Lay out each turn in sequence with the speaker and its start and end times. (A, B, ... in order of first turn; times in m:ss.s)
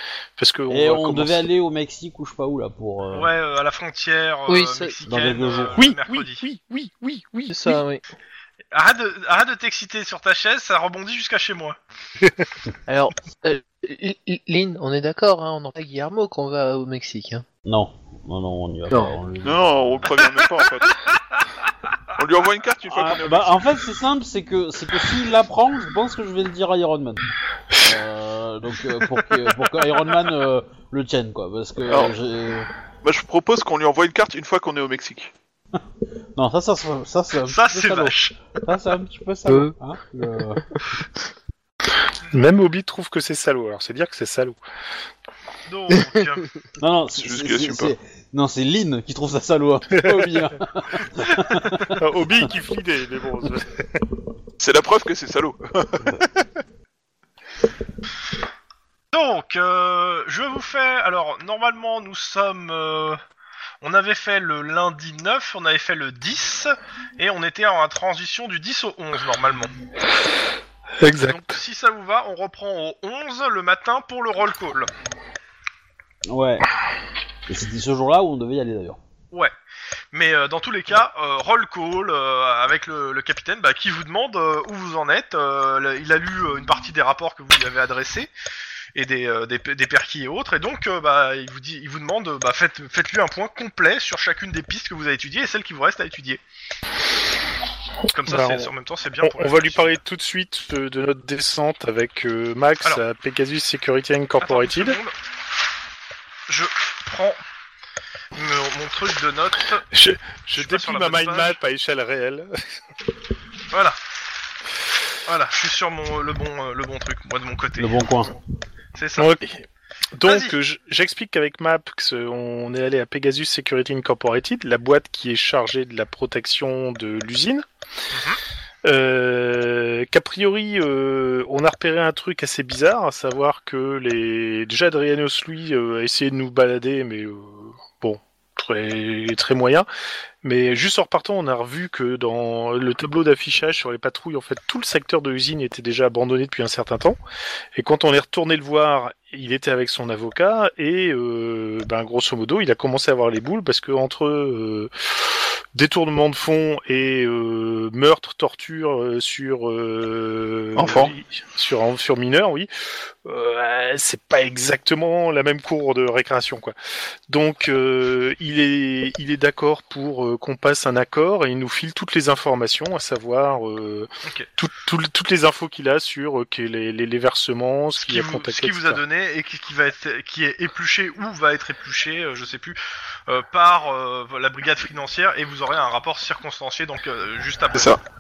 0:00.4-0:01.5 A
0:00.7-0:03.3 B
0:03.1-0:06.4 C
0:04.5-0:04.9 D
0:05.0-0:05.9 B
0:05.8-0:07.8 A
0:07.5-0:08.0 D
0:08.7-0:11.8 C
0:12.2-0:12.5 A
0:12.9-0:17.4 D
0:17.6-0:20.1 B
0:18.9-0:19.2 D
0:19.4-0:21.0 E
0:22.2-0:23.6 E
0:22.9-0:27.2 B
0:27.8-0:32.7 B
0:31.9-0:32.1 E
0:33.0-0:35.3 E
0:36.3-0:40.6 B
0:37.5-0:38.4 C
0:39.5-0:39.7 D
0:42.3-0:44.6 A
0:45.7-0:46.5 C
0:46.8-0:52.0 B
0:47.1-0:47.9 E
0:49.9-0:50.4 A
0:51.4-0:54.0 A
0:54.6-0:56.4 E
0:59.1-1:03.2 C
1:03.8-1:09.7 C
1:11.0-1:11.6 A
1:11.2-1:14.9 C
1:16.3-1:16.7 B
1:17.5-1:19.0 B
1:20.1-1:28.3 C
1:28.9-1:36.4 C
1:38.1-1:39.9 C
1:38.2-1:38.7 A
1:39.2-1:45.0 A
1:44.4-1:45.1 C
1:46.5-1:47.4 C
1:48.3-1:49.8 C
1:49.9-1:52.6 A
1:50.5-1:51.6 C
1:53.7-1:54.0 C
1:55.2-1:58.3 C
1:57.8-1:58.3 B
1:59.0-1:59.3 C
1:59.2-2:07.6 A
2:00.2-2:00.6 C
2:08.1-2:08.4 C
2:08.8-2:19.8 A
2:20.4-2:27.2 A
2:27.7-2:34.9 A
2:35.7-2:42.7 A
2:40.8-2:41.1 E
2:43.2-2:46.7 A
2:47.3-2:59.0 A
2:58.0-3:08.0 C
3:07.7-3:08.0 E